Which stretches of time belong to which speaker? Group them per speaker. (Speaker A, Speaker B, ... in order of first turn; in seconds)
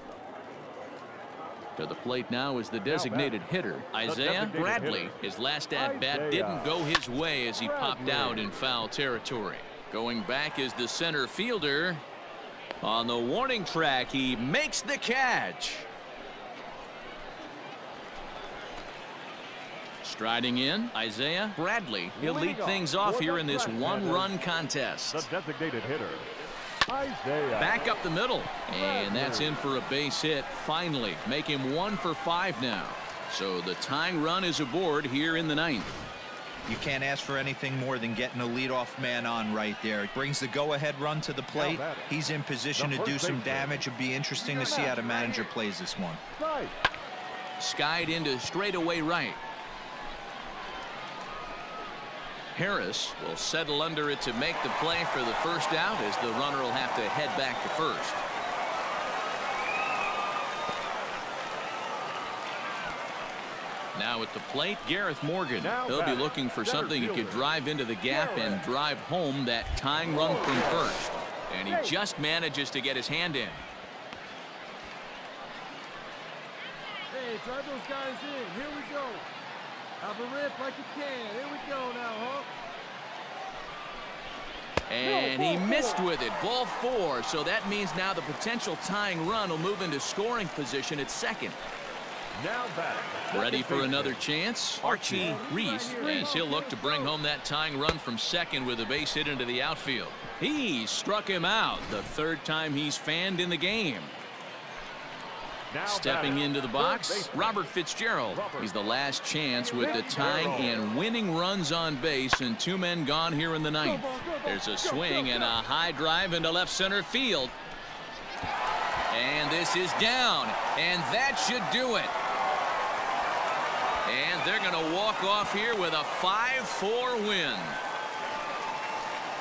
Speaker A: 1.8-12.0, 12.8-15.9, 20.0-25.3, 27.5-36.0, 47.6-49.4, 52.5-58.2, 63.9-73.6, 84.9-91.6, 93.3-104.2, 105.8-117.5, 119.1-122.1, 124.0-127.8
Speaker B: 2.9-3.4, 4.0-5.1, 5.7-6.7, 7.5-8.7, 22.2-24.3, 25.1-26.3, 26.9-27.8, 28.7-29.7, 41.5-42.1, 42.7-43.9, 44.4-45.0, 46.4-46.7, 65.6-67.5, 68.1-68.6, 70.0-70.9, 85.0-86.0, 92.3-94.2, 94.8-96.4, 105.7-107.6, 108.3-108.7, 109.7-110.9
Speaker C: 36.6-46.2
Speaker D: 44.4-45.5, 77.1-79.2, 80.0-82.5, 85.0-85.7, 94.8-97.1, 109.5-110.8, 113.8-115.5